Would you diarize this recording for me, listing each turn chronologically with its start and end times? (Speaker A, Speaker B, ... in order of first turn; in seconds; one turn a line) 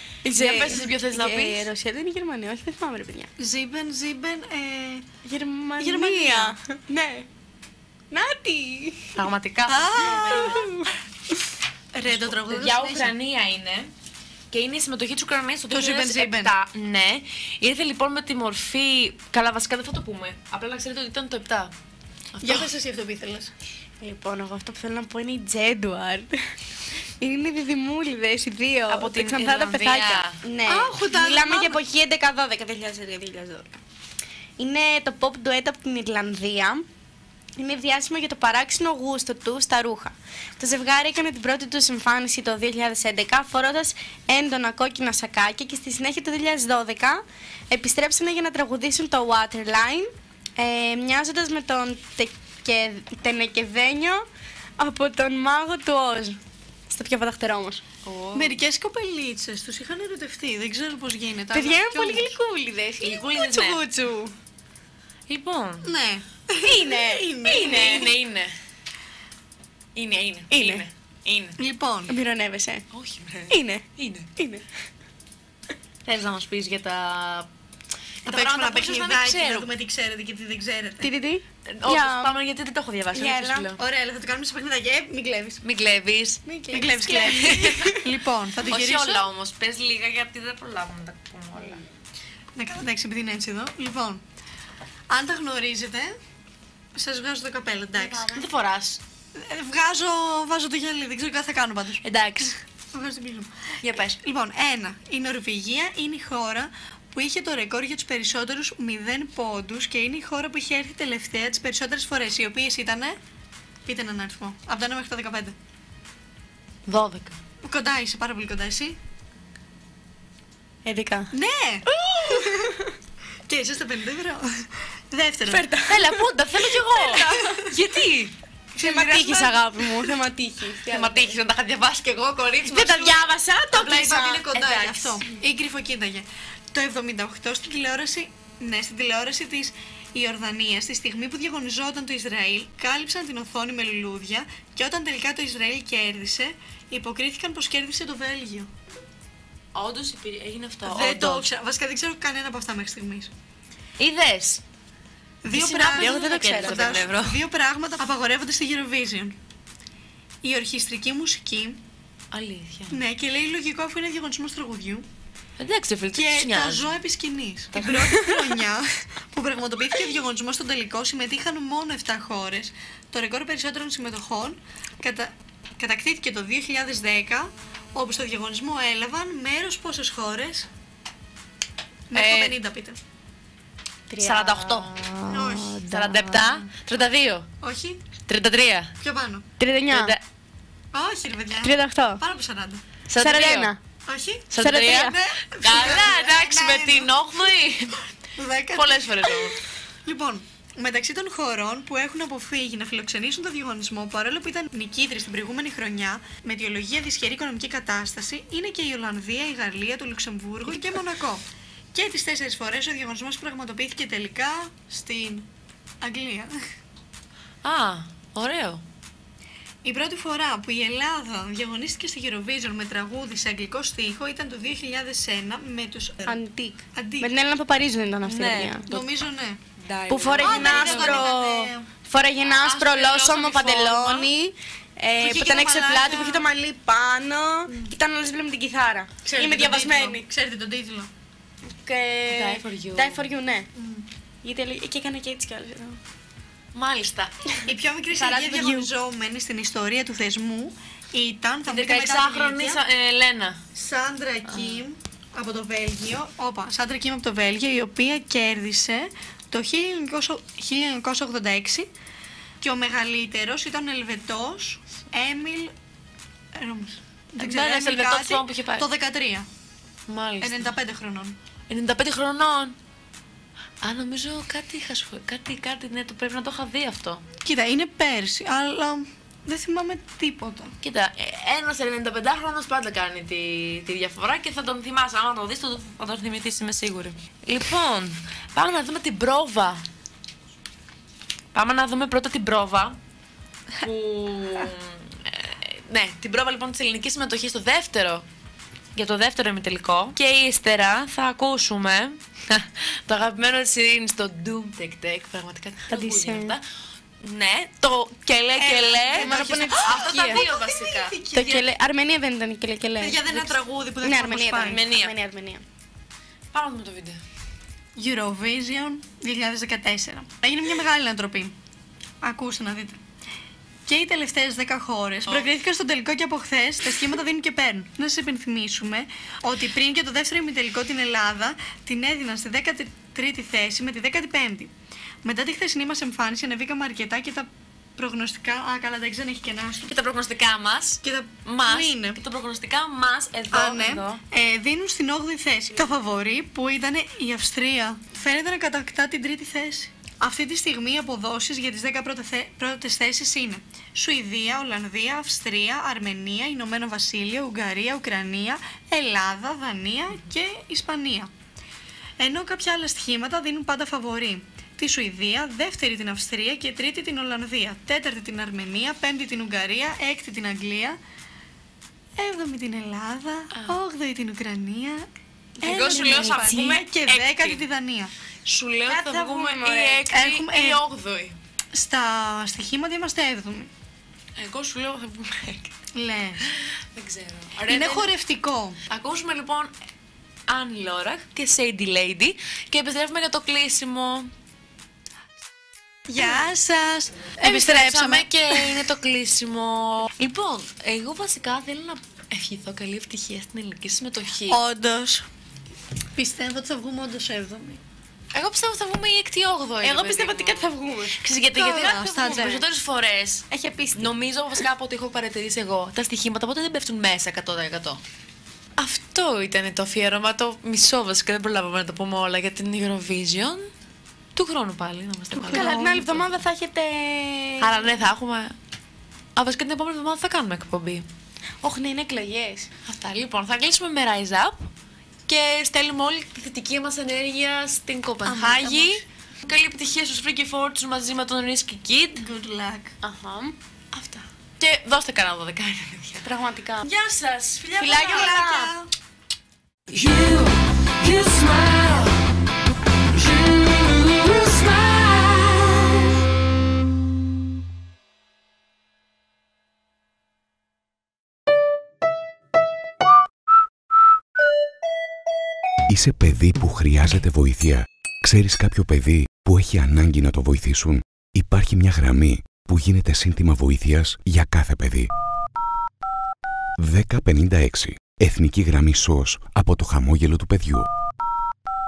Speaker A: 0.2-3.3
Speaker B: 0.4-1.7
Speaker C: 3.4-5.1
Speaker A: 5.2-7.3
Speaker C: 5.8-6.6
Speaker A: 8.1-9.2
Speaker B: 9.2-10.7
Speaker C: 9.7-10.7
Speaker A: 10.2-10.9
Speaker C: 11.9-13.1
Speaker B: 12.1-13.9
Speaker B: 14.5-21.7
Speaker C: 15.7-16.5
Speaker B: 22.3-22.7
Speaker C: 22.4-23.5
Speaker A: 24.0-26.5
Speaker A: 27.2-33.8
Speaker B: 28.9-30.4
Speaker C: 30.7-31.8
Speaker A: 34.6-36.9
Speaker A: 37.6-54.2
Speaker A: 54.8-57.8
Speaker B: 58.0-58.6
Speaker C: 58.3-62.3
Speaker A: 61.5-64.3
Speaker B: 63.0-63.8
Speaker B: 65.3-65.9
Speaker C: 65.8-68.1
Speaker A: 66.6-68.1
Speaker B: 67.5-68.5
Speaker B: 70.0-71.6
Speaker A: 70.5-70.8
Speaker C: 71.6-72.1
Speaker A: 72.1-72.8
Speaker B: 72.9-74.3
Speaker A: 73.5-74.7
Speaker B: 76.0-77.5
Speaker B: 78.2-79.7
Speaker C: 78.2-81.1
Speaker A: 81.0-82.3
Speaker B: 81.7-83.8
Speaker A: 83.1-83.7
Speaker C: 83.8-85.6
Speaker B: 85.6-86.4
Speaker A: 86.5-88.1
Speaker C: 86.7-89.2
Speaker B: 87.1-87.9
Speaker B: 88.7-91.8
Speaker C: 92.5-94.2
Speaker C: 95.1-96.2
Speaker C: 97.0-98.5
Speaker B: 98.0-99.0
Speaker C: 99.3-103.6
Speaker B: 102.0-102.6
Speaker B: 103.8-104.2
Speaker C: 104.2-113.2
Speaker C: 113.8-115.6
Speaker B: 116.9-117.4
Speaker C: 117.6-119.0
Speaker A: 120.8-121.3
Speaker C: 121.3-122.7
Speaker A: 122.2-122.9
Speaker C: 123.5-125.7
Speaker A: 125.5-127.7
Speaker B: 125.8-128.3
Speaker C: 127.1-127.7
Speaker C: 128.8-130.1
Speaker A: 128.8-131.4
Speaker B: 130.9-133.2
Speaker A: 132.7-134.5
Speaker C: 133.7-148.7
Speaker B: 134.1-135.2
Speaker B: 149.7-151.5
Speaker C: 150.8-153.3
Speaker B: 154.0-154.6
Speaker C: 155.4-159.4
Speaker B: 155.5-157.4
Speaker A: 156.0-157.0
Speaker C: 160.4-161.8
Speaker B: 162.3-163.0
Speaker C: 162.9-165.1
Speaker B: 165.6-167.0
Speaker C: 166.1-180.7
Speaker B: 167.7-168.3
Speaker A: 168.0-168.3
Speaker C: 182.1-183.0
Speaker B: 182.1-182.6
Speaker A: 184.1-186.7
Speaker B: 184.2-185.1
Speaker C: 185.3-185.8
Speaker B: 185.8-187.5
Speaker C: 187.6-188.0
Speaker B: 188.3-188.9
Speaker C: 189.0-189.4
Speaker A: 189.6-190.2
Speaker B: 189.9-190.2
Speaker C: 190.9-192.8
Speaker A: 191.6-192.2
Speaker B: 193.1-193.7
Speaker A: 193.2-193.8
Speaker C: 194.1-197.1
Speaker B: 194.5-198.0
Speaker A: 194.5-195.2
Speaker C: 198.4-199.5
Speaker B: 198.7-199.6
Speaker C: 200.1-215.5
Speaker C: 216.0-216.5
Speaker B: 217.6-218.8
Speaker C: 219.8-226.4
Speaker A: 226.3-228.9
Speaker C: 226.9-227.3
Speaker B: 228.2-229.1
Speaker C: 228.8-229.6
Speaker B: 229.8-231.3
Speaker A: 230.1-240.3
Speaker C: 230.4-231.9
Speaker B: 232.5-234.3
Speaker C: 235.2-236.5
Speaker C: 239.2-241.1
Speaker A: 241.8-243.7
Speaker B: 242.3-243.3
Speaker C: 243.8-244.1
Speaker A: 244.4-246.0
Speaker B: 246.8-247.5
Speaker C: 247.7-252.8
Speaker A: 248.2-248.9
Speaker B: 251.7-253.6
Speaker C: 253.8-261.9
Speaker B: 254.5-254.9
Speaker C: 262.6-265.7
Speaker C: 266.6-269.5
Speaker B: 267.4-268.9
Speaker B: 270.1-270.7
Speaker C: 270.4-271.4
Speaker B: 271.7-272.8
Speaker B: 273.8-277.2
Speaker C: 277.4-280.7
Speaker B: 280.8-289.8
Speaker B: 291.5-293.0
Speaker B: 293.8-298.3
Speaker B: 298.9-306.6
Speaker A: 305.9-306.5
Speaker B: 307.2-311.2
Speaker C: 308.6-311.7
Speaker A: 309.2-310.4
Speaker A: 311.3-315.6
Speaker C: 313.0-314.8
Speaker B: 314.6-315.1
Speaker B: 316.5-317.2
Speaker C: 318.0-321.6
Speaker C: 322.2-323.0
Speaker C: 323.9-334.7
Speaker C: 335.2-339.9
Speaker B: 339.9-344.2
Speaker C: 341.0-342.2
Speaker C: 343.5-361.3
Speaker C: 362.2-371.0
Speaker C: 372.2-375.1
Speaker B: 373.5-373.8
Speaker B: 375.6-377.6
Speaker C: 375.6-378.1
Speaker A: 375.8-376.8
Speaker B: 378.4-381.4
Speaker A: 378.9-380.0
Speaker C: 380.1-380.8
Speaker C: 381.7-383.7
Speaker B: 384.4-385.7
Speaker C: 385.9-386.4
Speaker B: 386.4-388.1
Speaker C: 387.7-388.8
Speaker B: 388.9-389.7
Speaker B: 390.5-394.3
Speaker C: 396.1-398.8
Speaker B: 396.2-396.5
Speaker B: 397.4-404.6
Speaker C: 404.5-405.3
Speaker C: 406.1-407.8
Speaker B: 408.3-418.0
Speaker A: 409.8-411.2
Speaker C: 411.5-412.6
Speaker A: 413.5-414.1
Speaker B: 418.8-423.7
Speaker B: 424.4-426.4
Speaker A: 425.4-428.0
Speaker C: 425.4-425.7
Speaker B: 427.6-428.6
Speaker B: 429.4-431.1
Speaker A: 431.6-432.7
Speaker B: 432.9-434.7
Speaker B: 435.3-442.3
Speaker C: 438.2-439.0
Speaker C: 442.2-442.9
Speaker A: 443.0-443.6
Speaker B: 443.9-446.3
Speaker A: 446.2-446.9
Speaker B: 446.8-447.8
Speaker C: 447.6-448.9
Speaker A: 447.8-448.7
Speaker B: 449.9-452.2
Speaker B: 453.1-455.9
Speaker D: 465.9-475.1
Speaker D: 476.8-480.9